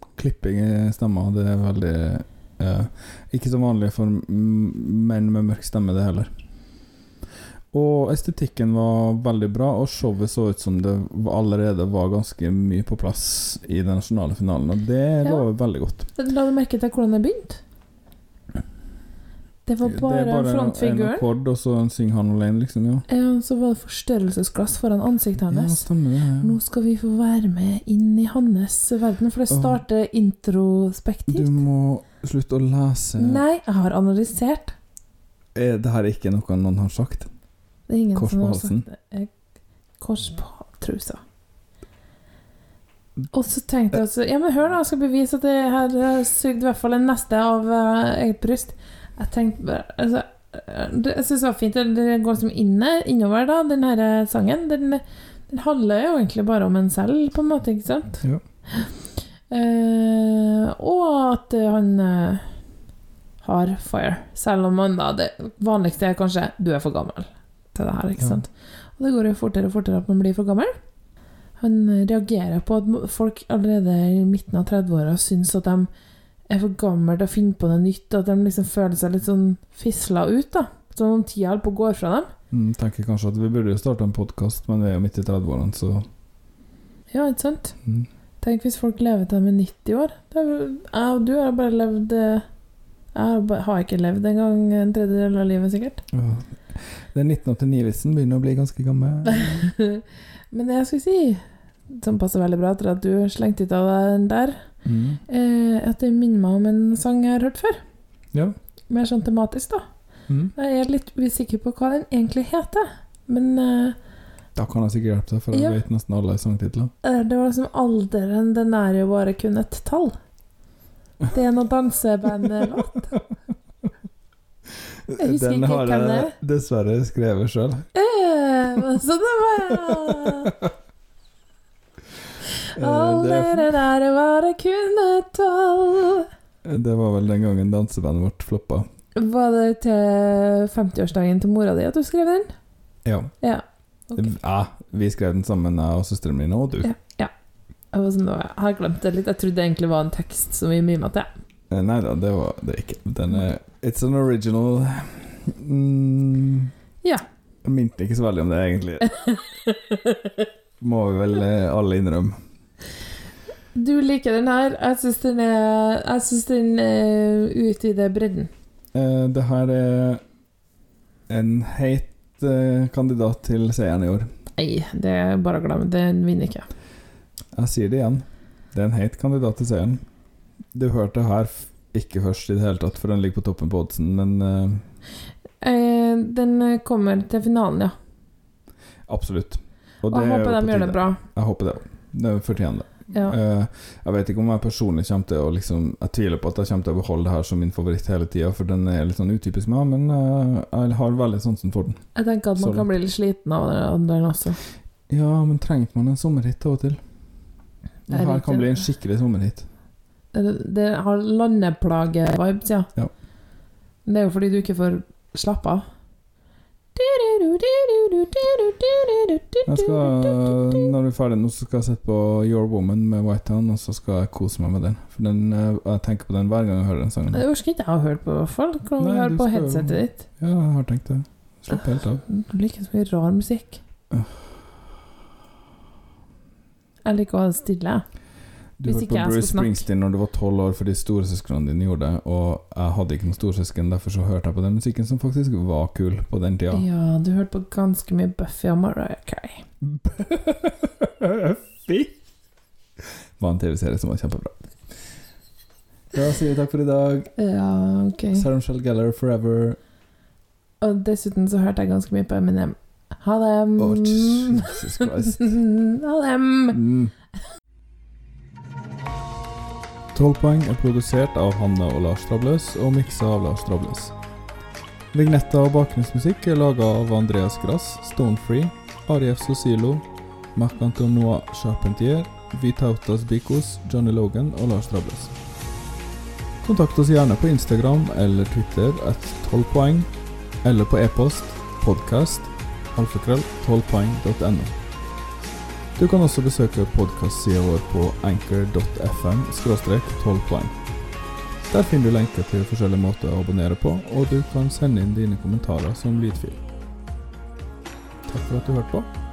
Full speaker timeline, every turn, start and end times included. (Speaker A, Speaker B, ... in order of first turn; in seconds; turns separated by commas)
Speaker A: 0.2-6.3, Speaker A: 7.7-16.1, Speaker B: 16.1-17.6, Speaker B: 19.6-21.2, Speaker A: 19.8-23.1, Speaker B: 23.1-25.8, Speaker A: 25.5-26.6, Speaker B: 26.4-31.5, Speaker A: 29.5-29.8, Speaker A: 31.3-33.4, Speaker B: 33.2-34.7, Speaker A: 35.5-37.3, Speaker B: 37.9-39.3, Speaker A: 38.1-38.8, Speaker B: 40.0-41.2, Speaker B: 43.3-58.2, Speaker B: 59.5-62.5, Speaker B: 63.4-70.7, Speaker B: 71.6-75.9, Speaker B: 76.5-82.3, Speaker A: 82.5-86.0, Speaker B: 87.1-87.8, Speaker B: 88.4-92.4, Speaker B: 93.1-96.0, Speaker A: 96.1-99.7, Speaker B: 99.3-104.6, Speaker A: 104.8-105.2, Speaker B: 105.3-107.8, Speaker B: 108.9-109.8, Speaker B: 110.5-114.0, Speaker A: 114.5-116.9, Speaker B: 115.5-115.8, Speaker B: 117.0-120.1, Speaker B: 121.3-123.2, Speaker A: 125.1-127.9, Speaker B: 125.2-126.3, Speaker B: 127.9-130.5, Speaker A: 129.7-130.7, Speaker A: 132.8-133.7, Speaker B: 132.8-136.3, Speaker A: 136.6-138.8, Speaker B: 139.2-142.5, Speaker A: 143.1-143.3, Speaker B: 143.4-144.2, Speaker A: 144.1-146.9, Speaker B: 146.8-147.3, Speaker B: 147.9-151.3, Speaker A: 151.7-156.7, Speaker A: 157.6-159.1, Speaker B: 159.1-160.3, Speaker A: 160.8-162.4, Speaker B: 163.7-168.5, Speaker A: 168.9-170.2, Speaker A: 171.3-174.3, Speaker B: 174.6-176.7, Speaker A: 177.5-180.0, Speaker A: 180.7-184.8, Speaker B: 185.6-187.9, Speaker A: 189.1-202.0, Speaker B: 190.1-191.2, Speaker B: 202.2-204.6, Speaker A: 202.6-202.9, Speaker A: 205.1-207.0, Speaker A: 208.1-209.7, Speaker B: 208.1-208.8, Speaker B: 210.3-212.9, Speaker B: 214.1-215.8, Speaker B: 216.9-220.9, Speaker A: 219.7-227.4, Speaker B: 227.3-230.2, Speaker A: 229.0-232.2, Speaker B: 232.3-233.8, Speaker A: 234.1-234.5, Speaker B: 237.0-238.0, Speaker A: 238.8-246.8, Speaker B: 238.8-239.8, Speaker B: 246.7-249.6, Speaker A: 249.8-252.1, Speaker A: 253.4-254.7, Speaker A: 256.1-257.3, Speaker B: 257.4-258.5, Speaker A: 258.3-259.8, Speaker B: 260.8-266.8, Speaker A: 263.8-265.5, Speaker A: 266.7-267.1, Speaker A: 270.1-274.1, Speaker A: 275.1-280.0, Speaker A: 280.5-285.3, Speaker A: 286.6-290.1, Speaker A: 290.6-294.7, Speaker A: 296.0-300.7, Speaker A: 301.6-306.6, Speaker A: 308.3-309.1